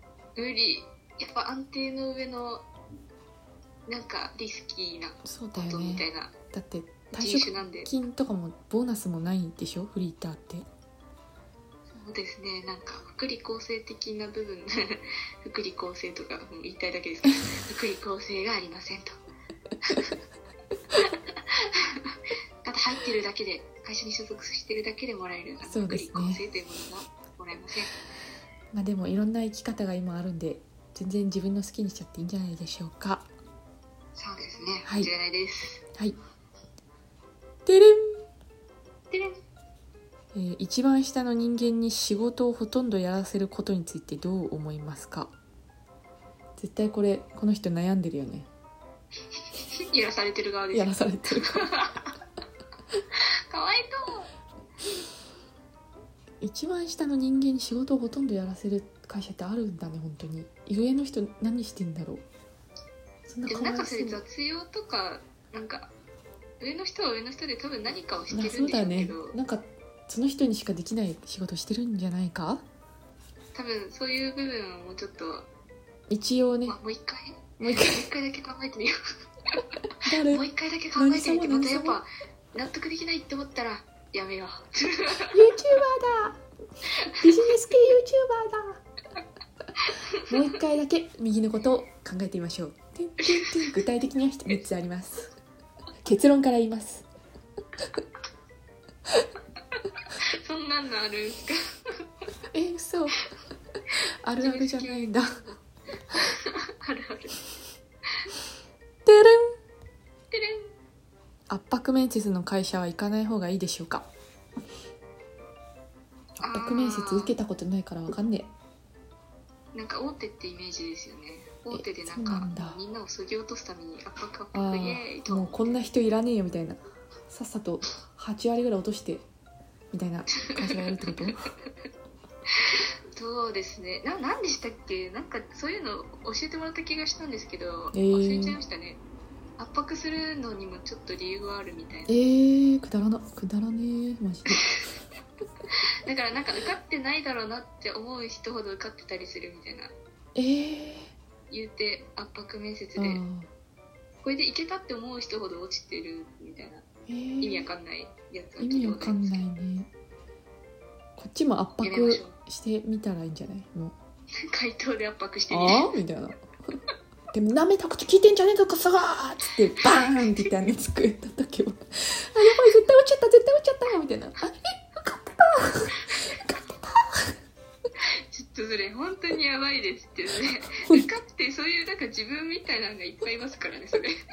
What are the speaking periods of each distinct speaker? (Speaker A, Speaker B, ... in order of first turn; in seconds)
Speaker A: 0.3-2.6, 3.9-6.3, 7.1-7.9, 11.9-19.1, 19.8-20.1, 21.0-27.9, 34.2-35.8, 39.1-39.4, 49.7-52.1, 53.2-54.3, 63.5-65.9, 66.6-69.4, 73.5-75.5, 76.7-79.0, 80.2-85.5, 87.0-87.2, 89.8-90.2, 93.2-93.5, 100.4-101.9, 104.4-105.6, 106.1-107.5, 110.3-110.7, 116.4-117.3, 119.7-125.8, 130.4-131.1, 132.5-139.0, 139.6-142.2, 144.6-144.8, 145.7-149.9, 151.5-153.2, 154.2-156.8, 157.4-159.4, 161.8-162.4, 164.4-165.9, 169.8-170.2, 178.0-184.1
Speaker B: 5.2-10.7, 25.6-26.4, 28.7-33.3, 34.8-35.1, 37.6-38.2, 40.3-45.3, 46.6-48.5, 50.7-51.6, 56.4-62.2, 63.3-64.2, 68.3-72.6, 76.1-76.8, 77.6-78.1, 80.0-82.0, 85.3-86.4, 87.2-88.8, 90.3-95.3, 96.0-97.0, 102.5-103.2, 104.2-105.3, 109.0-109.5, 111.5-114.1, 116.4-118.5, 121.7-122.8, 124.5-129.2, 129.9-131.4, 137.9-138.6, 142.1-144.7, 150.3-151.1, 152.9-153.5, 157.1-157.7, 158.6-159.9, 161.2-163.9, 165.5-166.4, 167.3-177.3